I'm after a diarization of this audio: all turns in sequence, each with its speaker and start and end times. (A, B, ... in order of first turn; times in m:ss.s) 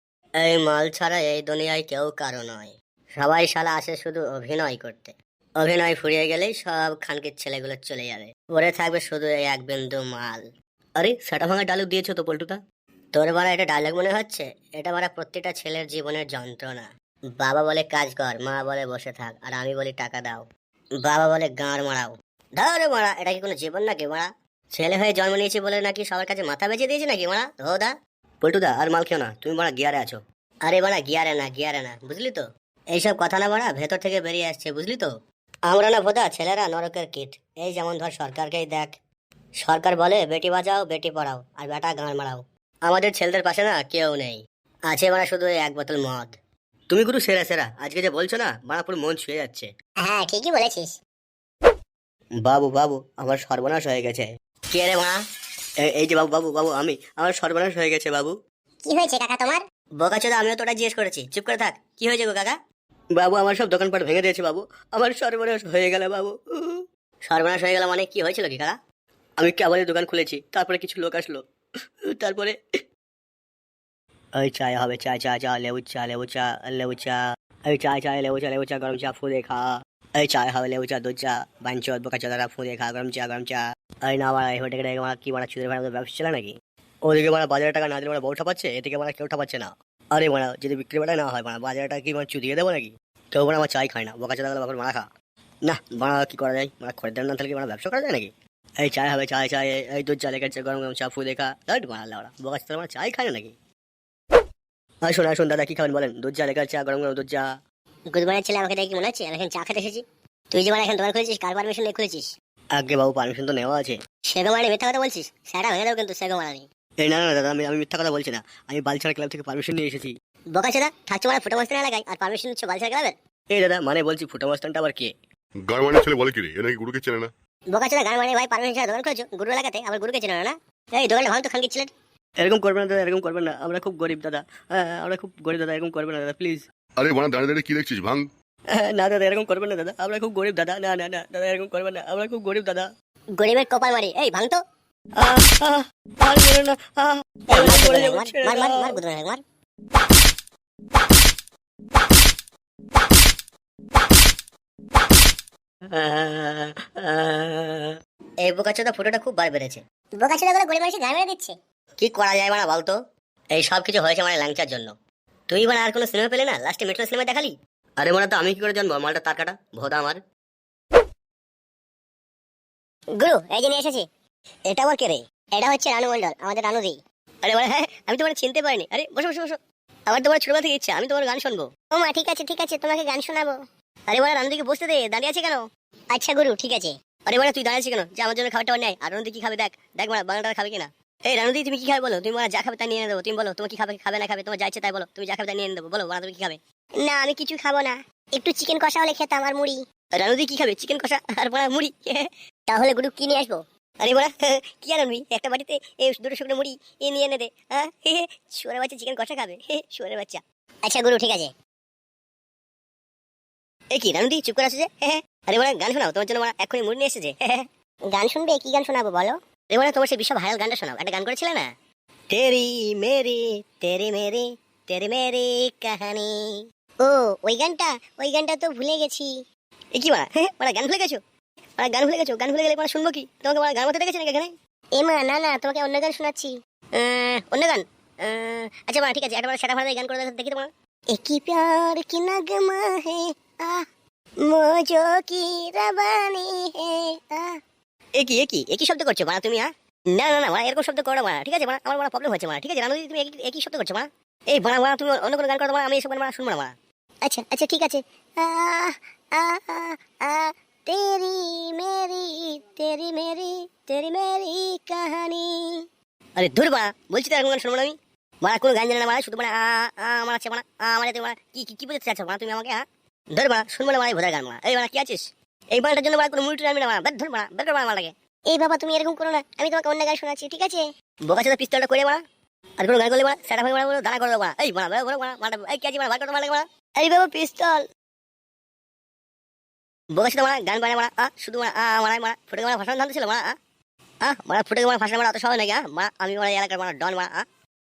0:00.4-0:10.4 A
0:11.0-0:12.6 A
0:13.1-0:20.4 A
0:21.0-0:27.9 A
0:28.4-0:29.9 A
0:30.6-0:35.1 A
0:35.7-0:39.0 A
0:39.6-0:46.3 A
0:46.9-0:49.7 B
0:50.0-0:50.9 A
0:52.4-0:54.2 B
0:54.7-0:55.2 A
0:55.9-0:58.3 B
0:58.9-1:02.6 A
1:03.2-1:06.8 B
1:07.2-1:08.7 A
1:09.4-1:11.4 B
1:12.2-1:12.5 B
1:14.4-1:17.2 B
1:17.7-1:19.6 B
1:20.2-1:26.5 B
1:27.1-1:32.9 B
1:31.2-1:32.0 A
1:33.4-1:35.0 A
1:33.8-1:34.0 B
1:35.7-1:38.3 B
1:38.8-1:41.7 B
1:41.7-1:43.4 A
1:45.1-1:47.4 B
1:48.1-1:52.3 A
1:52.8-1:54.0 B
1:54.3-1:56.6 A
1:57.0-2:00.1 B
2:00.5-2:03.1 A
2:03.5-2:05.1 B
2:05.6-2:07.3 C
2:07.7-2:11.9 A
2:12.4-2:16.6 B
2:17.0-2:18.3 C
2:18.8-2:22.9 B
2:23.4-2:24.6 A
2:25.2-2:29.0 B
2:27.5-2:29.4 A
2:36.1-2:37.6 B
2:38.4-2:43.0 A
2:43.5-2:44.9 A
2:45.5-2:47.5 A
2:48.0-2:50.2 B
2:53.2-2:54.0 A
2:54.7-2:59.6 A
3:00.1-3:03.6 A
3:04.1-3:31.5 A
3:33.9-3:41.7 A
3:42.3-3:49.3 A
3:49.9-3:51.2 A
3:51.8-4:03.8 A
4:04.4-4:07.6 A
4:08.2-4:16.7 A
4:17.2-4:25.8 A
4:26.4-4:32.8 A
4:33.3-4:42.2 A
4:42.8-4:47.8 A
4:50.1-4:53.5 A
4:54.2-4:57.4 A